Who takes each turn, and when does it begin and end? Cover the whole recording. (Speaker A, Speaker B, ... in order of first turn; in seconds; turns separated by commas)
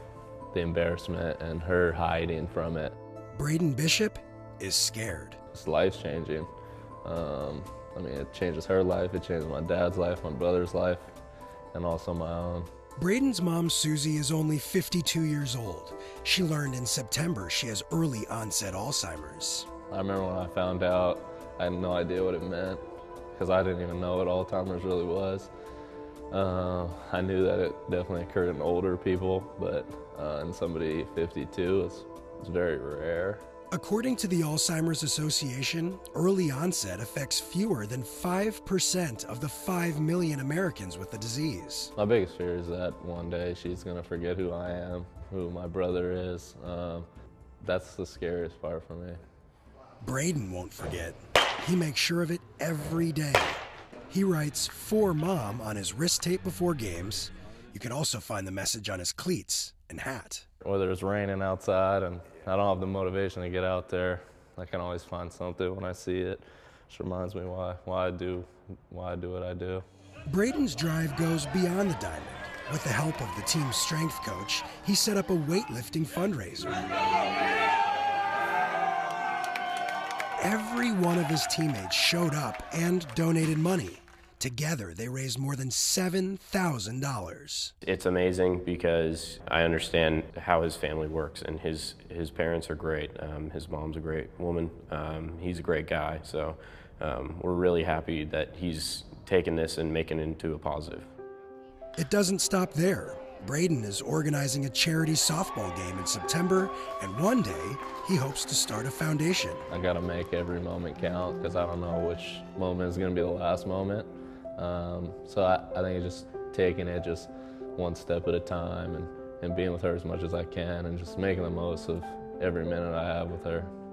Speaker A: 0.5-3.0, Speaker B: 3.4-5.4, Speaker A: 5.5-6.5, Speaker A: 7.0-11.1, Speaker A: 11.7-12.7, Speaker B: 13.0-19.7, Speaker A: 19.9-25.5, Speaker A: 26.3-33.4, Speaker B: 33.7-41.9, Speaker A: 42.0-47.1, Speaker A: 47.6-49.2, Speaker B: 50.0-60.5, Speaker A: 60.6-69.8, Speaker B: 70.3-76.8, Speaker B: 80.4-87.7, Speaker C: 87.8-101.1, Speaker B: 102.0-109.7, Speaker A: 109.7-123.7